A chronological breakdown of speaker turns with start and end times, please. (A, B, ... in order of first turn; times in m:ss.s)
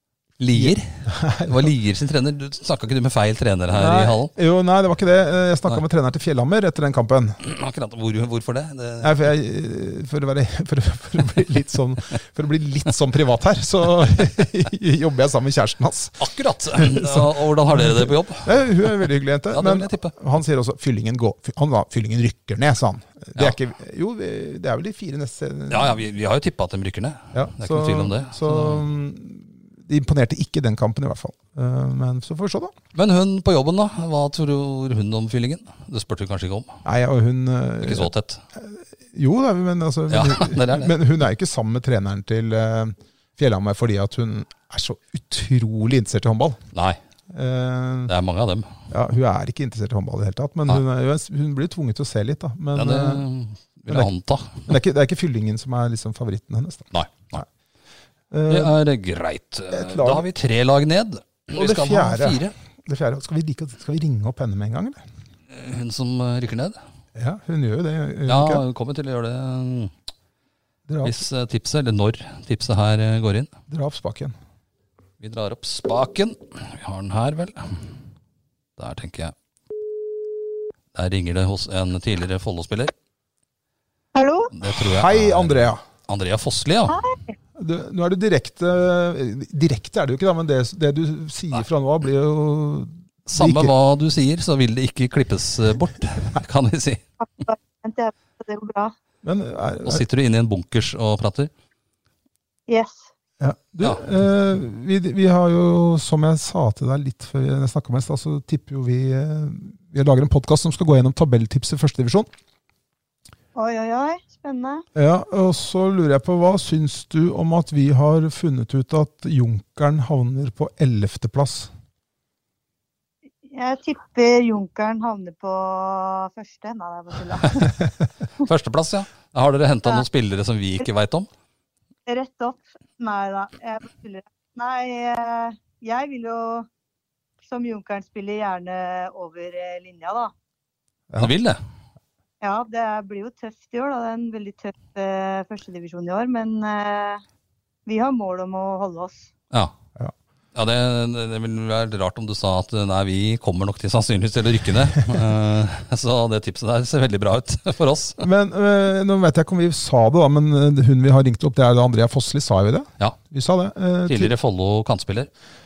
0:00.4-0:04.3 A
0:00.5-0:01.7 B
0:03.7-0:07.4 B
0:07.4-0:09.1 A
0:09.0-0:16.2 B
0:16.2-0:20.1 A
0:16.8-0:26.0 B
0:25.7-0:28.8 A
0:27.3-0:32.7 B
0:33.0-0:36.8 A
0:36.8-0:46.6 B
0:37.8-0:38.4 A
0:40.1-0:40.9 A
0:46.7-0:47.0 A
0:47.3-0:48.1 B
0:48.1-0:48.8 A
0:48.9-0:53.3 B
0:52.7-0:54.7 A
0:54.7-0:57.4 B
0:56.9-0:57.4 A
0:58.3-0:58.8 B
0:58.5-1:02.6 A
0:59.7-1:00.3 B
1:01.6-1:05.0 B
1:05.5-1:06.8 A
1:07.2-1:08.6 B
1:08.3-1:09.9 A
1:10.9-1:11.2 B
1:11.0-1:13.5 A
1:13.7-1:14.3 B
1:15.2-1:17.9 A
1:18.8-1:19.3 A
1:20.9-1:22.9 A
1:24.2-1:24.5 C
1:24.5-1:27.0 A
1:24.6-1:25.8 B
1:26.9-1:27.4 C
1:27.6-1:33.7 B
1:33.3-1:37.0 A
1:37.2-1:39.0 C
1:39.2-1:40.0 B
1:39.8-1:41.5 A
1:42.7-1:43.1 C
1:43.4-1:52.3 B
1:53.6-1:54.8 C
1:55.0-2:01.7 B
2:03.4-2:07.7 C
2:08.4-2:11.3 A
2:12.1-2:16.7 C
2:17.4-2:20.3 C
2:21.2-2:21.6 A
2:22.4-2:27.2 C
2:27.9-2:29.3 C
2:30.6-2:38.2 A
2:38.2-2:44.3 B
2:44.1-2:45.3 A